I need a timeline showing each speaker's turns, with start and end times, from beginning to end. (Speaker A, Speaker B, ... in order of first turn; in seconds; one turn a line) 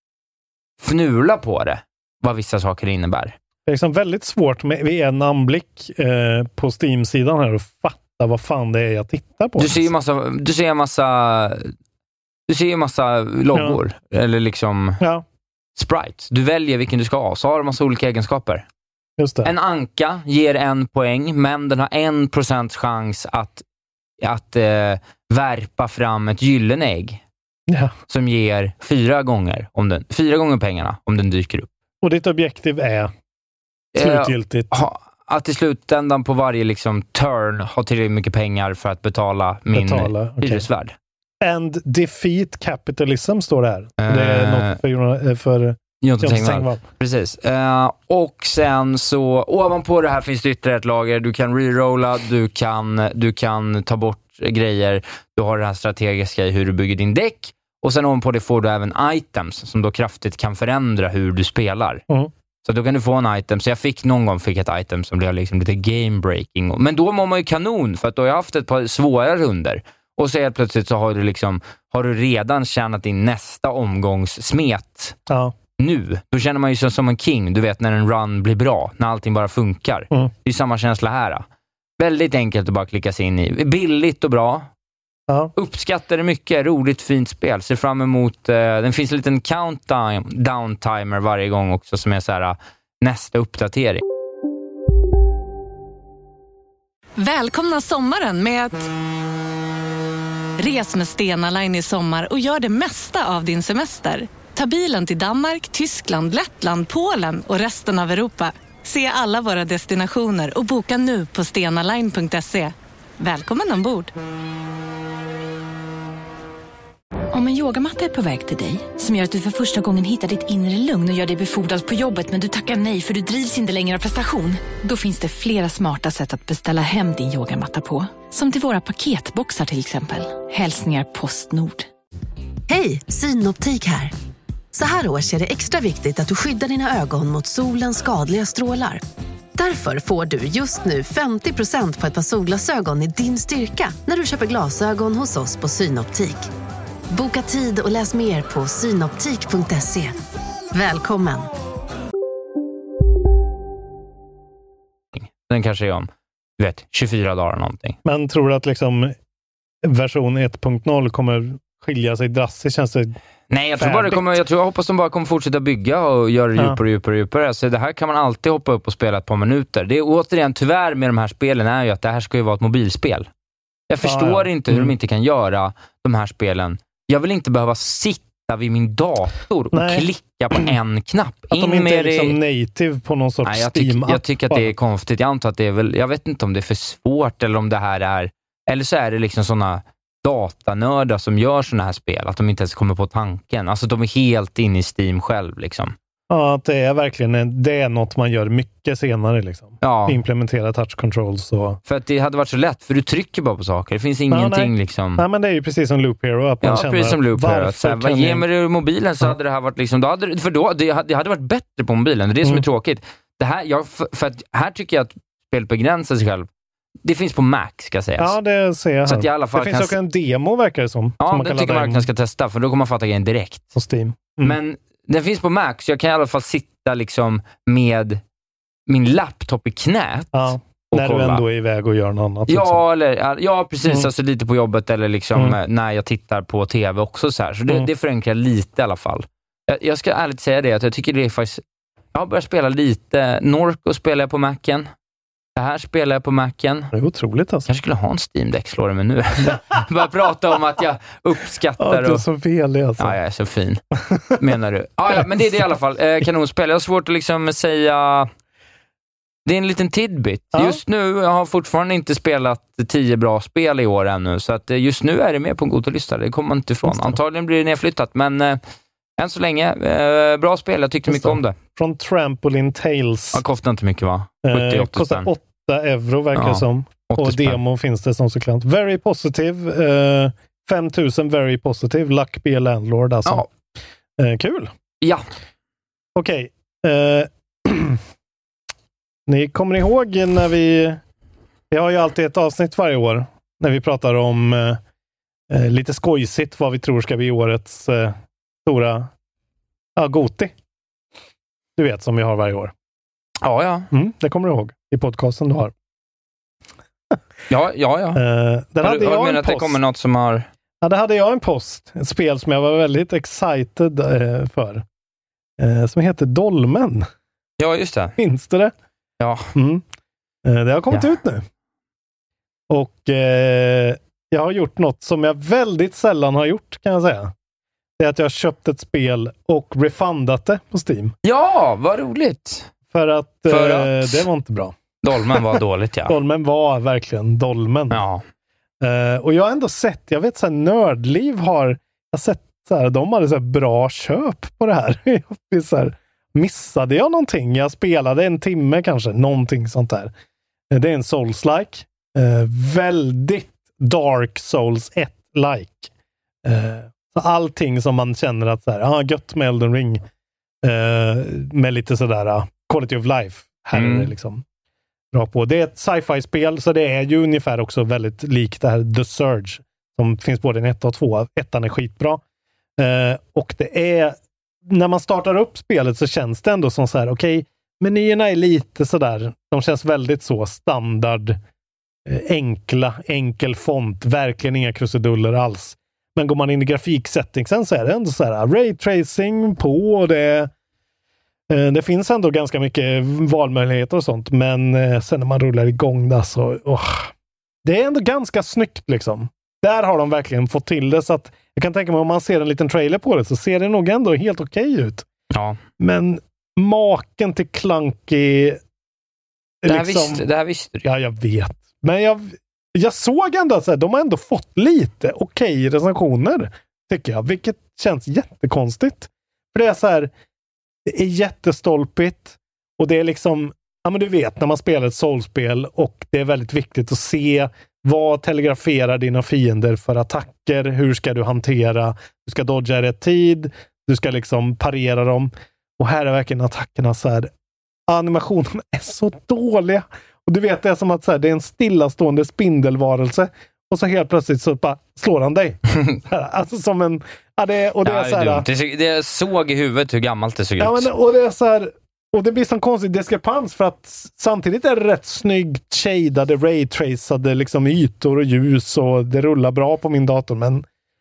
Speaker A: 0.8-3.4
Speaker B: 3.7-9.9
Speaker A: 9.6-11.7
Speaker A: 12.5-15.0
Speaker B: 13.5-13.8
Speaker B: 15.0-15.2
Speaker A: 15.8-18.7
Speaker B: 19.2-19.5
Speaker A: 19.4-23.6
Speaker A: 24.2-27.2
Speaker B: 27.7-27.9
Speaker A: 28.1-31.7
Speaker B: 32.0-33.1
Speaker A: 34.0-40.9
Speaker B: 34.0-34.7
Speaker B: 39.7-40.6
Speaker B: 41.4-46.8
Speaker A: 44.0-44.8
Speaker A: 46.0-62.0
Speaker A: 62.6-75.2
Speaker B: 75.3-75.5
Speaker A: 75.8-81.5
Speaker A: 82.0-84.7
Speaker B: 85.3-85.5
Speaker A: 85.6-94.0
Speaker C: 97.2-98.9
Speaker C: 100.6-114.1
Speaker D: 117.3-131.9
Speaker E: 132.7-134.1
Speaker E: 134.7-139.0
Speaker E: 139.6-146.5
Speaker E: 147.1-150.2
Speaker E: 150.7-151.5
Speaker A: 155.1-158.0
Speaker B: 158.1-159.2
Speaker B: 159.8-163.2
Speaker A: 163.5-173.3
Speaker B: 163.8-164.4
Speaker A: 173.9-182.4
Speaker B: 174.0-174.9
Speaker B: 179.7-180.7
Speaker B: 181.5-184.7
Speaker A: 183.4-195.9
Speaker B: 196.3-201.8
Speaker A: 199.8-200.2
Speaker A: 201.9-205.2
Speaker B: 204.3-208.4
Speaker A: 206.6-216.5
Speaker A: 217.1-218.3
Speaker B: 218.2-222.1
Speaker A: 219.1-219.9
Speaker A: 221.2-223.7
Speaker B: 223.8-224.6
Speaker A: 224.4-228.2
Speaker A: 228.9-231.4
Speaker B: 230.3-232.8
Speaker A: 232.5-241.6
Speaker A: 242.1-244.9
Speaker A: 245.6-246.9
Speaker B: 246.9-247.7
Speaker A: 247.7-252.2
Speaker B: 251.8-253.2
Speaker A: 253.0-253.8
Speaker A: 254.4-258.3
Speaker A: 259.5-268.6
Speaker B: 260.5-260.8
Speaker B: 266.9-267.2
Speaker A: 269.2-271.6
Speaker B: 271.1-273.4
Speaker A: 273.3-275.3
Speaker B: 274.4-283.5
Speaker A: 276.4-277.6
Speaker B: 284.2-284.7
Speaker B: 286.2-288.0
Speaker B: 289.3-291.0
Speaker B: 291.7-294.8
Speaker B: 295.5-299.1
Speaker B: 300.0-300.5
Speaker B: 301.8-302.7
Speaker A: 303.4-303.9
Speaker B: 303.9-305.7
Speaker A: 307.5-308.2
Speaker B: 308.1-309.8
Speaker A: 308.8-310.5
Speaker B: 310.8-314.9
Speaker B: 315.6-317.1
Speaker A: 317.6-318.1
Speaker B: 318.2-318.7
Speaker A: 319.2-319.5
Speaker B: 319.6-319.8
Speaker B: 320.4-321.5
Speaker B: 322.7-327.3
Speaker B: 328.0-331.1
Speaker A: 331.2-332.7
Speaker B: 332.9-334.8
Speaker A: 333.5-334.3
Speaker A: 335.0-336.2
Speaker B: 335.3-338.0
Speaker A: 337.9-338.2
Speaker B: 338.8-350.1
Speaker B: 350.7-355.9
Speaker B: 356.4-360.0
Speaker B: 360.6-364.4
Speaker A: 363.7-364.1
Speaker B: 365.1-372.2
Speaker B: 372.8-381.4
Speaker B: 382.1-390.5
Speaker B: 391.5-397.1
Speaker B: 397.6-405.1
Speaker A: 405.3-405.6
Speaker B: 405.8-408.6
Speaker B: 409.6-410.2
Speaker A: 409.7-410.9
Speaker B: 410.8-420.1
Speaker B: 420.9-437.3
Speaker B: 437.9-448.5
Speaker A: 447.8-450.9
Speaker B: 450.6-460.6